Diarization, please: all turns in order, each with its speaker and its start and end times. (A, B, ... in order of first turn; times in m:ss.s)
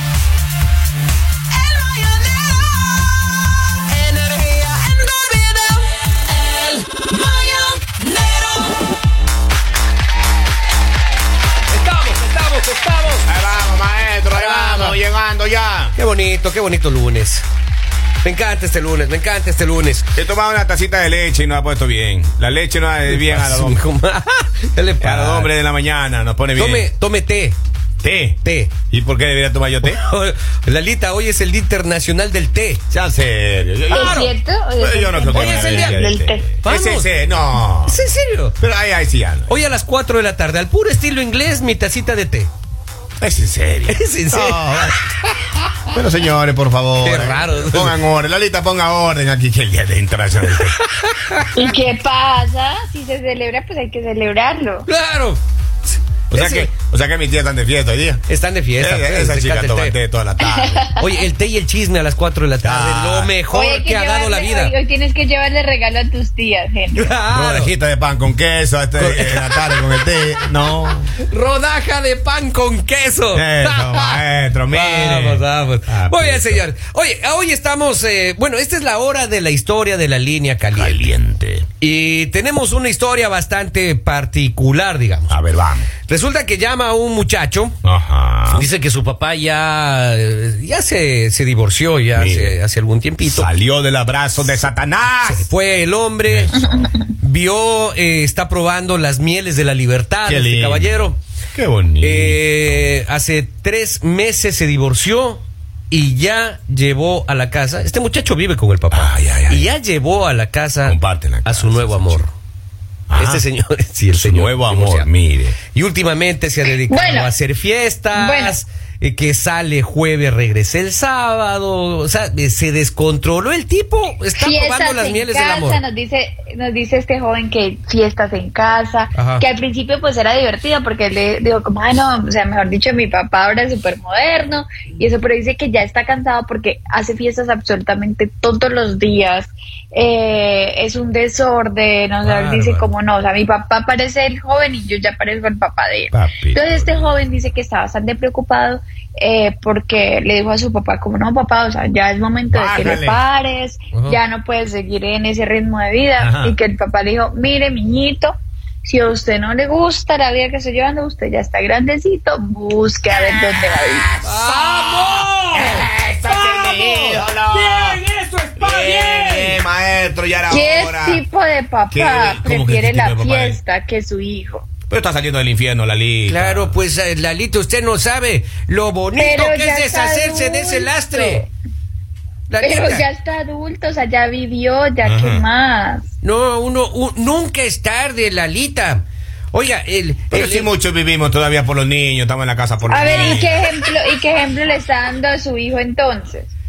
0:01.6-0:02.7 A
0:03.9-0:08.7 A
0:11.7-0:13.3 A
0:13.2-0:16.0 B
0:14.3-0:15.0 A
0:16.0-0:17.5 A
0:18.2-0:20.1 A
0:20.2-0:23.8 B
0:23.1-0:25.5 A
0:25.0-0:26.9 B
0:26.6-0:27.6 A
0:28.0-0:28.4 B
0:28.4-0:28.7 A
0:28.9-0:30.0 B
0:29.8-0:32.8 A
0:32.9-0:38.1 B
0:33.9-0:34.3 A
0:33.9-0:36.5 C
0:35.3-0:36.0 A
0:36.6-0:37.1 A
0:37.9-0:38.6 A
0:38.6-0:39.5 B
0:39.5-0:42.5 A
0:43.2-0:45.0 B
0:43.9-0:45.0 A
0:45.9-0:50.7 B
0:47.0-0:48.0 A
0:50.6-0:51.4 A
0:51.5-0:54.9 C
0:54.9-0:55.4 A
0:56.3-0:56.7 A
0:56.3-0:58.2 B
0:58.3-1:00.0 A
0:58.8-1:00.8 B
1:00.5-1:01.1 C
1:01.0-1:04.7 A
1:02.6-1:03.3 B
1:03.5-1:07.1 C
1:06.9-1:07.7 A
1:07.3-1:11.1 B
1:09.0-1:21.1 A
1:13.3-1:16.6 B
1:20.7-1:21.7 B
1:21.8-1:25.4 A
1:25.3-1:25.9 B
1:26.1-1:27.8 A
1:27.8-1:28.7 B
1:28.5-1:33.5 A
1:32.2-1:32.6 B
1:33.2-1:35.5 B
1:35.2-1:41.2 A
1:36.3-1:36.9 B
1:40.2-1:42.9 B
1:42.0-1:52.3 A
1:48.9-1:49.7 B
1:50.8-1:52.3 B
1:53.1-1:53.4 B
1:53.1-1:55.1 A
1:54.1-1:55.6 B
1:55.7-2:05.8 A
1:56.6-1:57.3 C
1:58.1-1:58.6 C
2:04.4-2:44.1 C
2:09.2-2:09.4 A
2:22.2-2:22.9 A
2:26.1-2:27.2 B
2:32.5-2:33.2 B
2:33.9-2:34.2 A
2:36.2-2:36.6 B
2:43.1-2:48.0 B
2:44.2-2:49.6 A
2:48.6-2:51.2 B
2:50.5-2:54.7 C
2:51.9-2:53.6 B
2:54.9-2:56.8 B
2:56.3-3:01.5 A
2:59.2-3:01.5 C
3:02.5-3:03.0 A
3:02.6-3:06.1 C
3:05.0-3:05.4 B
3:06.2-3:10.7 A
3:10.3-3:13.6 B
3:12.9-3:16.5 C
3:13.0-3:13.5 A